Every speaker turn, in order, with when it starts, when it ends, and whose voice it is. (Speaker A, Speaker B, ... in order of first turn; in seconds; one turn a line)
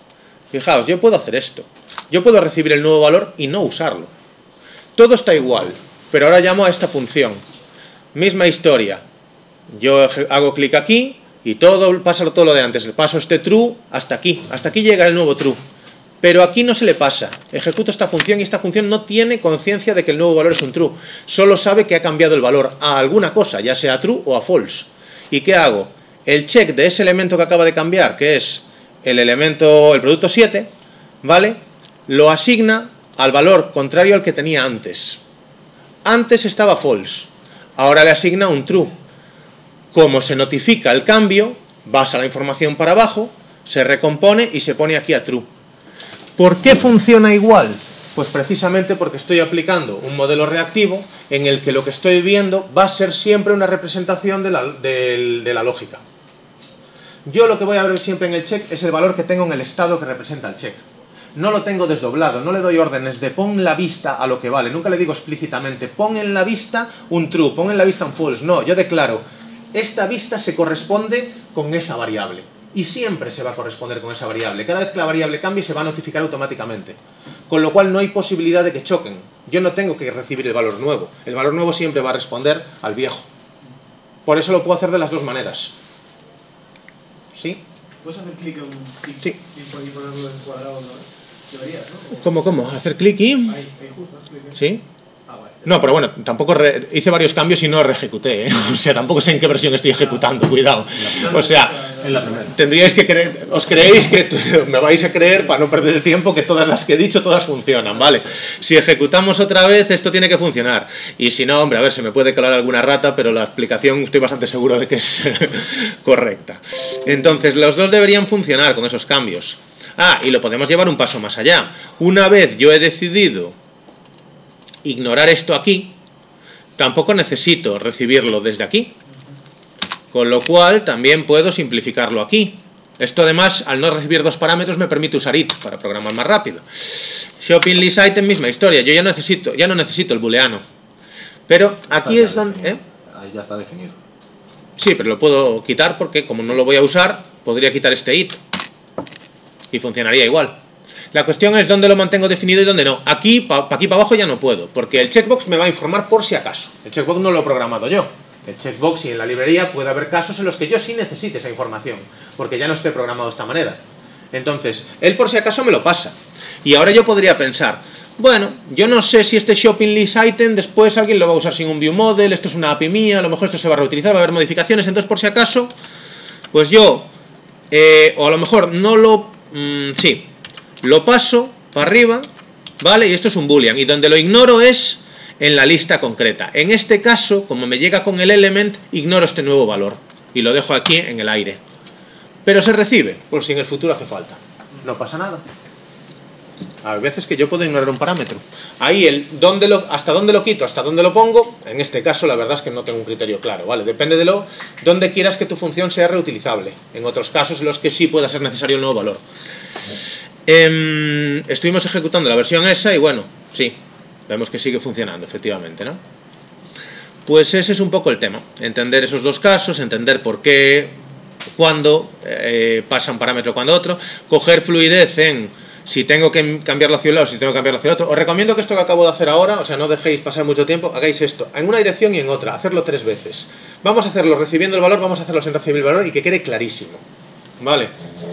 Speaker A: 0.5-4.1
Speaker A: 5.0-7.4
Speaker A: 8.1-9.0
Speaker A: 9.7-15.6
Speaker A: 16.2-30.7
Speaker A: 31.2-35.2
Speaker A: 36.0-39.0
Speaker A: 39.9-45.5
Speaker A: 46.4-56.0
Speaker A: 57.2-60.8
Speaker A: 61.3-77.0
Speaker A: 77.5-83.3
Speaker A: 84.2-85.7
Speaker A: 87.3-87.6
Speaker B: 88.0-92.3
Speaker A: 92.2-93.6
Speaker B: 93.5-94.6
Speaker A: 94.5-94.8
Speaker B: 95.3-95.8
Speaker A: 95.6-123.5
Speaker C: 101.0-101.4
Speaker B: 101.1-102.4
Speaker C: 102.0-102.5
Speaker A: 124.8-126.0
Speaker A: 126.8-128.9
Speaker A: 130.1-140.6
Speaker A: 141.5-142.8
Speaker C: 141.9-144.0
Speaker A: 144.8-148.4
Speaker A: 149.7-150.6
Speaker A: 151.1-163.8
Speaker A: 164.3-175.7
Speaker A: 176.5-177.1
Speaker A: 177.7-180.3
Speaker A: 180.8-182.3
Speaker A: 182.8-191.6
Speaker A: 192.4-195.4
Speaker A: 196.8-209.2
Speaker A: 210.4-216.0
Speaker A: 217.2-221.0
Speaker A: 221.6-237.0
Speaker A: 237.6-237.9